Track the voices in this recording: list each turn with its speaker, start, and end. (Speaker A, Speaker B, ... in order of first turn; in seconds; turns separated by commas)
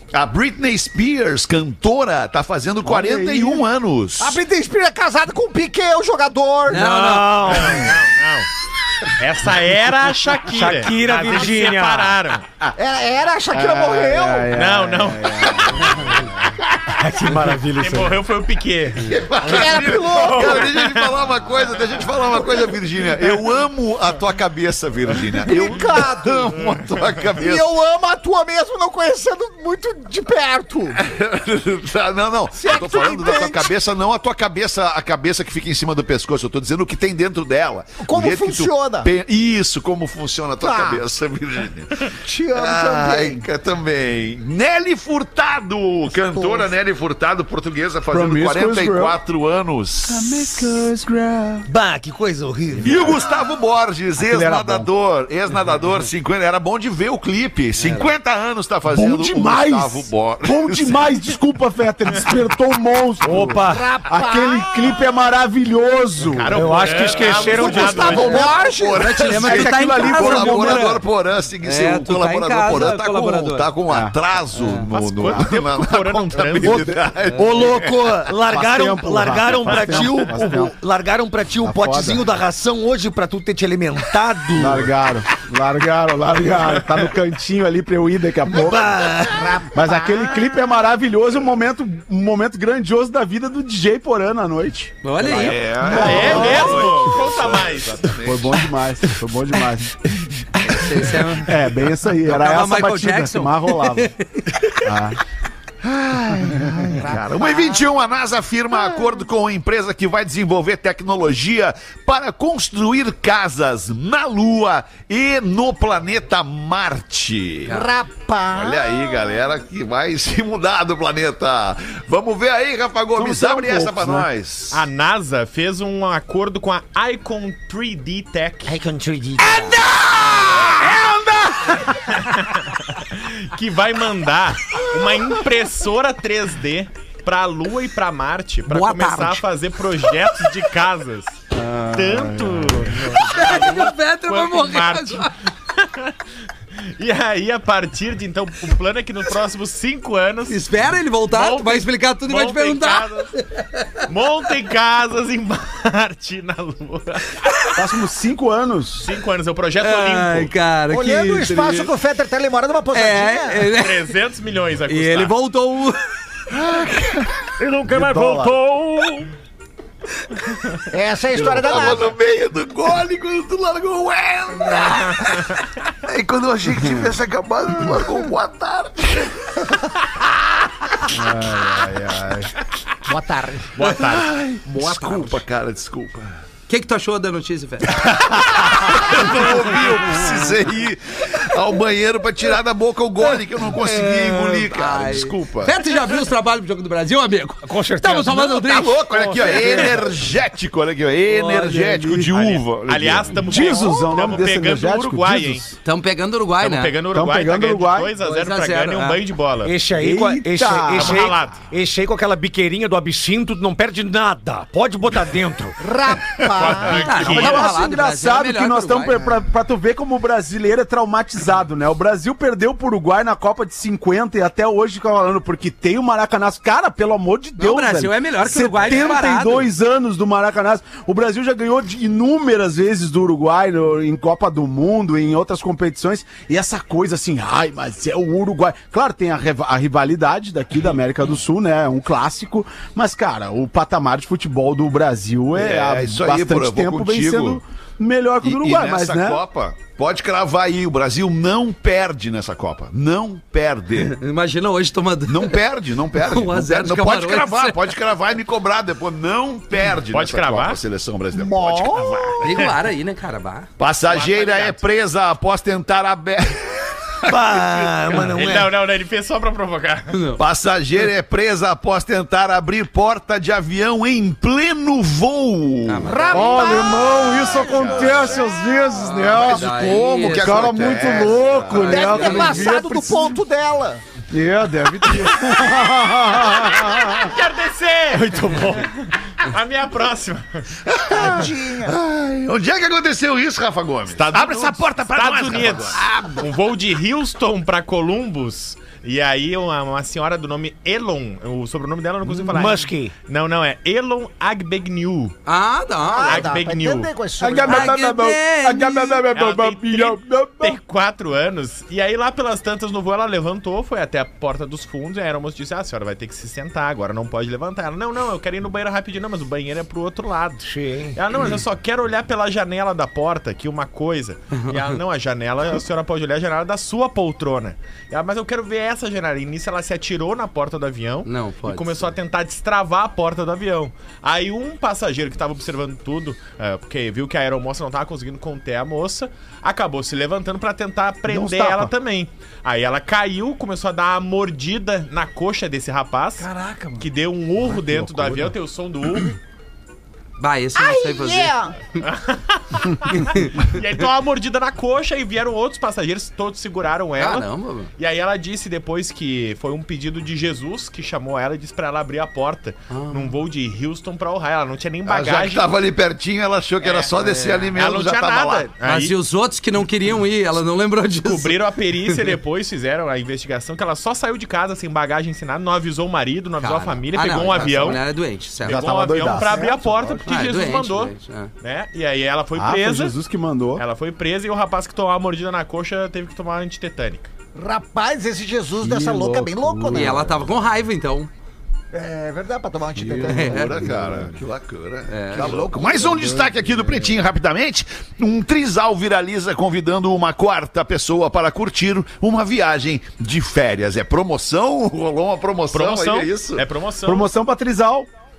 Speaker A: 0.1-4.4, Speaker B: 2.8-3.6, Speaker C: 4.2-6.8, Speaker D: 6.7-7.8, Speaker E: 6.8-8.0, Speaker F: 7.4-8.5, Speaker F: 9.1-12.4, Speaker E: 10.5-12.2, Speaker C: 12.7-14.6, Speaker B: 13.5-16.3, Speaker F: 14.5-16.0, Speaker E: 17.0-18.2, Speaker F: 17.0-21.2, Speaker A: 19.0-27.7, Speaker C: 19.4-20.7, Speaker C: 25.4-26.6, Speaker C: 27.4-31.0, Speaker A: 31.0-50.8, Speaker C: 32.5-33.7, Speaker C: 38.0-39.1, Speaker C: 40.6-41.0, Speaker C: 42.1-43.4, Speaker C: 46.3-46.7, Speaker B: 48.1-49.2, Speaker B: 50.1-51.7, Speaker E: 51.6-53.3, Speaker A: 52.8-61.1, Speaker B: 54.2-54.9, Speaker D: 57.8-58.1, Speaker B: 58.9-66.5, Speaker E: 63.2-63.9, Speaker C: 63.6-65.0, Speaker A: 66.3-78.4, Speaker F: 66.5-68.5, Speaker E: 66.5-68.6, Speaker C: 68.0-69.3, Speaker D: 69.0-71.0, Speaker B: 69.4-71.0, Speaker D: 71.6-73.7, Speaker B: 73.9-74.1, Speaker D: 74.5-74.9, Speaker F: 74.9-77.0, Speaker B: 75.2-75.5, Speaker B: 76.6-77.0, Speaker E: 77.3-84.9, Speaker B: 78.5-80.7, Speaker A: 79.7-80.1, Speaker B: 81.6-82.2, Speaker B: 84.5-89.2, Speaker E: 88.5-89.6, Speaker C: 89.3-90.5, Speaker B: 89.7-96.9, Speaker D: 95.0-96.4, Speaker A: 95.2-98.6, Speaker F: 95.8-98.1, Speaker C: 96.0-96.6, Speaker B: 98.2-100.0, Speaker D: 100.7-101.6, Speaker B: 101.3-104.1, Speaker D: 102.2-104.8, Speaker B: 104.8-105.2, Speaker A: 105.8-117.7, Speaker C: 106.9-107.9, Speaker C: 117.7-119.3, Speaker A: 118.5-124.8, Speaker B: 123.1-124.3, Speaker F: 124.7-128.7, Speaker E: 128.6-129.8, Speaker B: 129.6-131.8, Speaker F: 132.1-141.3, Speaker D: 138.7-139.4, Speaker B: 141.5-143.1, Speaker F: 141.9-146.1, Speaker D: 143.2-145.3, Speaker F: 146.9-153.3, Speaker D: 150.5-154.0, Speaker F: 154.1-157.4, Speaker B: 157.8-159.1, Speaker F: 159.0-160.5, Speaker D: 159.8-161.9, Speaker C: 160.9-163.7, Speaker D: 162.9-164.1, Speaker F: 163.7-165.3, Speaker D: 164.9-166.0, Speaker A: 166.5-167.5, Speaker E: 167.6-169.3, Speaker B: 167.9-168.6, Speaker C: 170.9-172.1, Speaker A: 171.3-179.8, Speaker B: 176.7-177.1, Speaker B: 181.1-182.5, Speaker C: 183.1-183.7, Speaker F: 183.8-184.3, Speaker A: 183.8-186.4, Speaker C: 184.8-185.4, Speaker D: 186.7-188.1, Speaker A: 187.9-195.8, Speaker D: 193.7-200.0, Speaker E: 197.6-198.6, Speaker A: 198.4-203.5, Speaker E: 199.4-200.0, Speaker D: 201.3-201.7, Speaker B: 201.3-202.5, Speaker F: 202.3-205.7, Speaker B: 203.4-205.7, Speaker D: 205.8-207.0, Speaker F: 206.6-209.7, Speaker B: 207.1-208.1, Speaker D: 208.2-209.2, Speaker E: 209.6-215.8, Speaker B: 210.0-211.3, Speaker F: 210.9-211.6, Speaker C: 215.8-217.2, Speaker F: 216.4-217.8, Speaker D: 216.8-219.3, Speaker B: 217.2-249.4, Speaker D: 227.6-229.7, Speaker A: 245.5-247.6, Speaker A: 248.4-254.2, Speaker D: 254.0-255.6, Speaker A: 255.2-262.7, Speaker D: 256.1-257.9, Speaker F: 260.1-260.8, Speaker C: 261.3-262.5, Speaker D: 262.4-263.7, Speaker A: 263.8-268.0, Speaker F: 264.1-264.9, Speaker E: 267.2-268.7, Speaker F: 268.2-270.2, Speaker D: 270.1-270.4, Speaker A: 270.4-278.6, Speaker D: 275.8-276.9, Speaker C: 276.1-278.3, Speaker B: 276.3-283.4, Speaker D: 279.0-281.1, Speaker A: 279.2-282.3, Speaker D: 281.7-282.7, Speaker C: 281.8-284.0, Speaker B: 284.3-287.3, Speaker F: 287.2-290.6, Speaker A: 290.8-296.4, Speaker C: 291.1-291.9, Speaker F: 294.1-305.4, Speaker E: 302.5-303.1, Speaker D: 305.4-306.5, Speaker C: 306.0-308.0, Speaker F: 306.2-307.1, Speaker B: 307.4-310.8, Speaker D: 307.6-309.3, Speaker F: 309.3-346.5, Speaker E: 320.7-321.2, Speaker D: 324.6-324.9, Speaker D: 331.2-332.1, Speaker B: 341.3-341.9, Speaker C: 346.4-347.0, Speaker F: 347.0-349.4, Speaker B: 347.7-348.5, Speaker D: 350.4-351.5, Speaker C: 350.7-351.7, Speaker F: 352.0-365.7, Speaker D: 353.2-353.5, Speaker D: 357.2-357.9, Speaker D: 362.9-363.4, Speaker A: 365.1-368.7, Speaker F: 366.8-369.2, Speaker D: 367.2-367.6, Speaker D: 368.8-372.3, Speaker F: 371.2-378.1, Speaker D: 376.6-379.0, Speaker F: 378.6-383.1, Speaker B: 378.6-380.2, Speaker C: 379.6-380.1, Speaker D: 380.2-381.5, Speaker B: 382.5-383.8, Speaker F: 383.8-387.3, Speaker C: 387.5-390.2, Speaker B: 388.8-390.4, Speaker D: 389.9-391.3, Speaker C: 391.9-393.9, Speaker B: 392.9-394.4, Speaker D: 393.3-393.8, Speaker A: 393.3-406.6, Speaker D: 395.1-395.6, Speaker C: 395.3-396.4, Speaker B: 395.9-397.2, Speaker F: 405.7-407.3, Speaker B: 407.0-408.1